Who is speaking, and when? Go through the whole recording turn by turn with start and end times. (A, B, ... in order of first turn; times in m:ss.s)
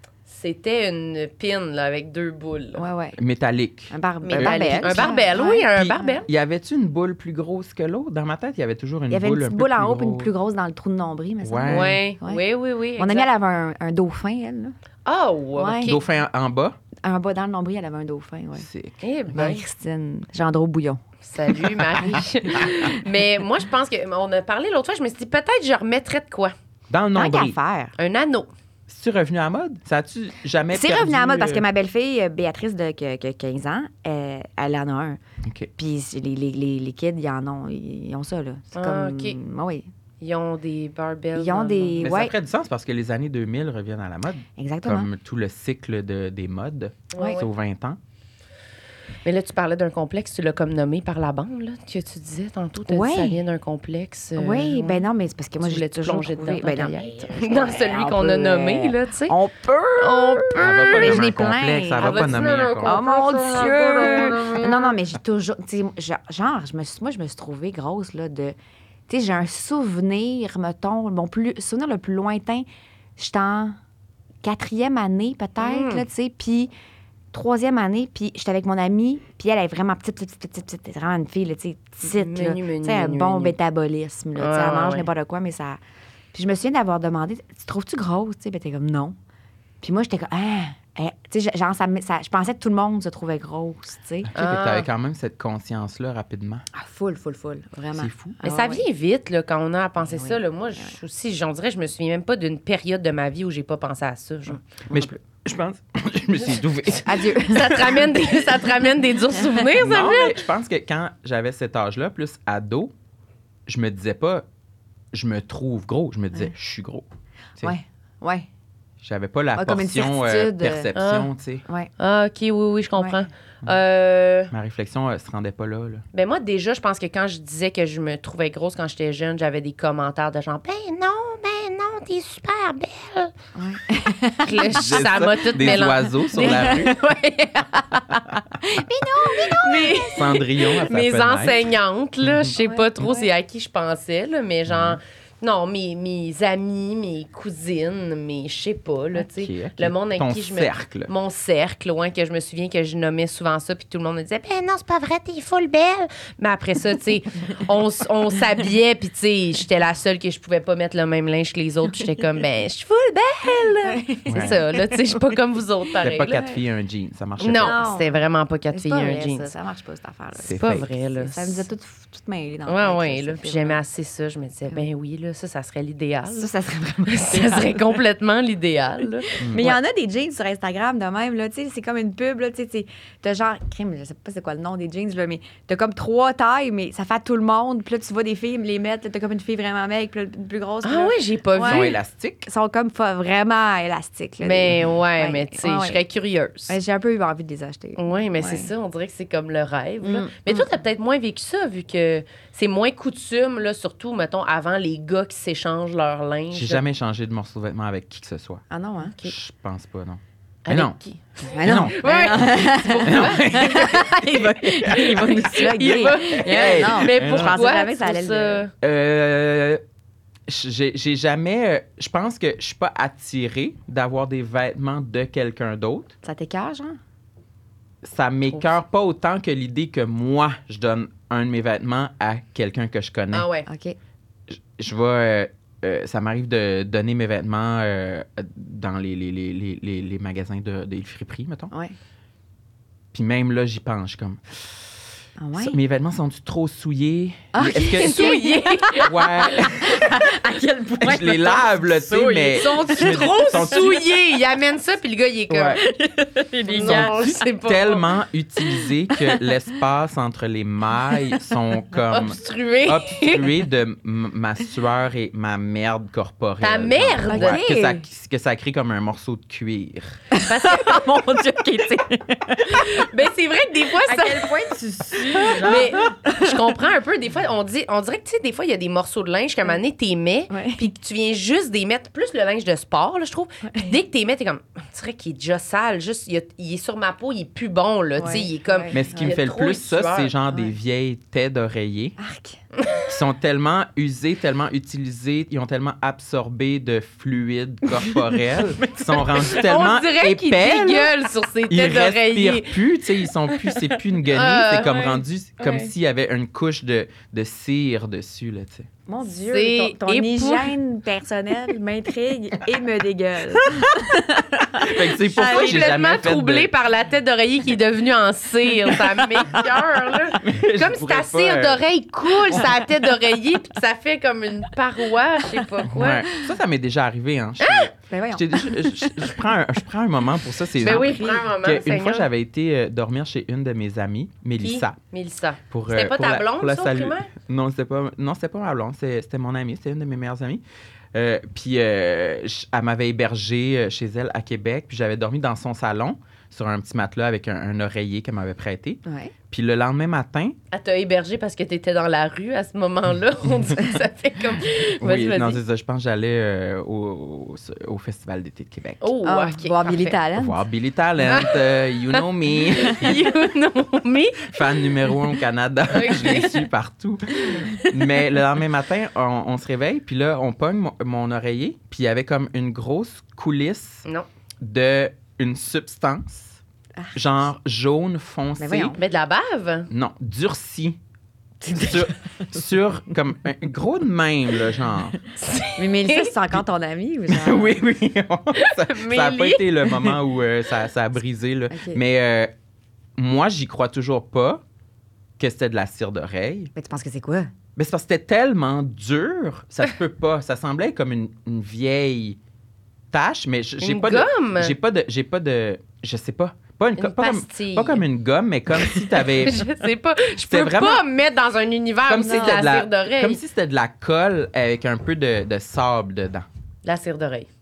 0:00.3-0:02.9 A
0:02.8-0:03.2 B
0:03.2-0:05.2 C
0:03.9-0:06.2 B
0:04.2-0:06.3 A
0:05.7-0:10.3 C
0:09.1-0:12.4 B
0:11.4-0:12.0 C
0:11.7-0:13.3 A
0:13.0-0:14.7 B
0:15.1-0:16.0 A
0:15.6-0:16.0 B
0:15.8-0:16.8 C
0:17.0-0:18.7 B
0:18.6-0:19.0 C
0:19.0-0:19.6 A
0:19.3-0:21.0 B
0:21.3-0:26.5 A
0:21.6-0:23.0 B
0:26.9-0:27.6 C
0:27.2-0:28.0 B
0:28.0-0:28.5 A
0:28.9-0:31.6 C
0:30.7-0:35.2 B
0:35.4-0:35.7 C
0:35.8-0:39.9 B
0:38.7-0:39.4 A
0:40.2-0:42.1 A
0:41.4-0:42.3 B
0:42.0-0:48.0 C
0:44.6-0:45.1 B
0:47.1-0:47.5 A
0:49.2-0:55.1 A
0:52.9-0:53.4 B
0:54.4-1:08.6 B
0:55.6-0:59.4 A
1:00.0-1:01.3 A
1:00.6-1:03.0 C
1:02.0-1:04.9 A
1:09.1-1:12.7 B
1:13.2-1:13.8 B
1:14.4-1:16.7 B
1:15.6-1:16.0 A
1:17.3-1:25.8 B
1:22.0-1:23.5 A
1:24.4-1:25.1 A
1:26.3-1:29.2 B
1:29.8-1:34.3 B
1:34.3-1:36.6 C
1:34.4-1:34.9 A
1:36.7-1:38.8 B
1:38.0-1:38.4 C
1:38.4-1:44.7 A
1:40.0-1:40.9 B
1:44.9-1:47.1 C
1:47.1-1:48.2 B
1:47.2-1:50.4 A
1:49.8-1:52.9 C
1:53.7-1:54.4 C
1:55.1-1:57.1 C
1:57.6-1:58.5 B
1:59.0-2:01.6 C
1:59.6-2:00.9 B
2:00.9-2:01.3 A
2:02.0-2:04.5 A
2:04.5-2:06.0 C
2:06.1-2:13.3 A
2:13.6-2:15.1 B
2:14.4-2:18.2 A
2:14.6-2:17.0 C
2:15.6-2:17.1 B
2:18.3-2:20.2 B
2:18.9-2:46.4 A
2:20.1-2:21.6 C
2:22.6-2:23.3 B
2:24.7-2:25.0 C
2:29.3-2:31.1 C
2:43.8-2:45.2 B
2:44.3-2:44.6 C
2:46.0-2:47.8 C
2:46.2-2:46.6 B
2:47.4-2:49.5 A
2:47.6-2:48.1 B
2:48.7-2:50.6 B
2:50.4-2:50.9 C
2:50.5-2:51.7 A
2:51.2-2:53.8 B
2:52.7-2:56.5 A
2:56.3-2:57.9 B
2:57.1-2:59.8 A
2:59.3-3:16.0 B
2:59.4-2:59.8 C
3:10.8-3:12.0 A
3:11.6-3:12.4 C
3:14.4-3:16.8 A
3:16.7-3:18.7 B
3:18.0-3:26.8 A
3:20.0-3:20.7 B
3:26.5-3:28.6 C
3:28.7-3:29.3 B
3:29.2-3:31.0 C
3:30.6-3:38.7 A
3:31.5-3:38.6 B
3:31.6-3:32.0 C
3:33.1-3:34.0 C
3:36.1-3:37.6 C
3:38.8-3:39.8 C
3:40.5-3:46.1 C
3:46.2-3:47.0 B
3:48.0-3:53.5 C
3:53.3-3:53.7 A
3:53.7-3:54.0 B
3:54.5-4:01.7 C
4:01.7-4:02.0 B
4:03.1-4:04.9 C
4:05.4-4:05.8 B
4:05.6-4:08.3 C
4:07.5-4:14.0 B
4:08.0-4:09.6 A
4:09.0-4:10.2 C
4:11.0-4:14.0 C
4:12.4-4:15.8 A
4:15.5-4:15.8 C
4:15.8-4:17.3 B
4:16.7-4:18.1 A
4:16.7-4:30.2 C
4:18.8-4:19.4 B
4:21.1-4:21.4 B
4:22.1-4:23.6 A
4:26.6-4:27.6 A
4:27.3-4:28.0 B
4:30.3-4:33.1 B
4:30.4-4:31.4 A
4:32.6-4:34.5 A
4:34.0-4:36.6 B
4:35.3-4:50.3 A
4:40.5-4:40.8 B
4:48.2-4:49.3 B
4:48.9-4:52.2 C
4:52.2-4:52.6 B
4:53.1-5:01.1 C
4:59.3-5:02.8 A
5:01.7-5:08.9 C
5:04.3-5:05.9 A
5:09.1-5:15.9 B
5:09.4-5:10.7 A
5:14.8-5:16.7 C
5:15.4-5:26.3 A
5:20.4-5:21.8 C
5:25.9-5:35.0 C
5:27.6-5:27.9 A
5:28.1-5:29.3 B
5:30.8-5:32.3 A
5:30.8-5:31.4 B
5:34.6-5:37.3 A
5:35.7-5:40.6 C
5:41.1-5:50.6 C
5:49.0-5:49.3 B
5:50.7-5:55.6 A
5:55.0-5:59.1 C
5:59.0-6:00.2 A
5:59.2-6:00.6 B
6:00.4-6:03.2 C
6:01.2-6:04.8 A
6:04.5-6:14.0 C
6:05.9-6:06.7 A
6:14.6-6:16.6 C
6:17.2-6:19.0 C
6:18.6-6:19.0 B
6:19.0-6:19.9 A
6:19.9-6:21.0 C
6:21.6-6:22.1 B
6:21.7-6:25.2 C
6:25.4-6:26.4 A
6:25.8-6:27.8 B
6:27.3-6:32.5 C
6:28.6-6:30.1 A
6:31.7-6:32.0 B
6:33.2-6:34.6 C
6:35.4-6:36.7 C
6:36.8-6:37.5 B
6:37.8-6:42.4 C
6:43.1-6:49.6 C
6:43.8-6:44.8 A
6:47.0-6:48.0 A
6:49.2-6:53.4 A
6:50.5-6:51.0 C
6:52.1-6:56.4 C
6:52.2-6:52.7 B
6:56.8-6:57.5 A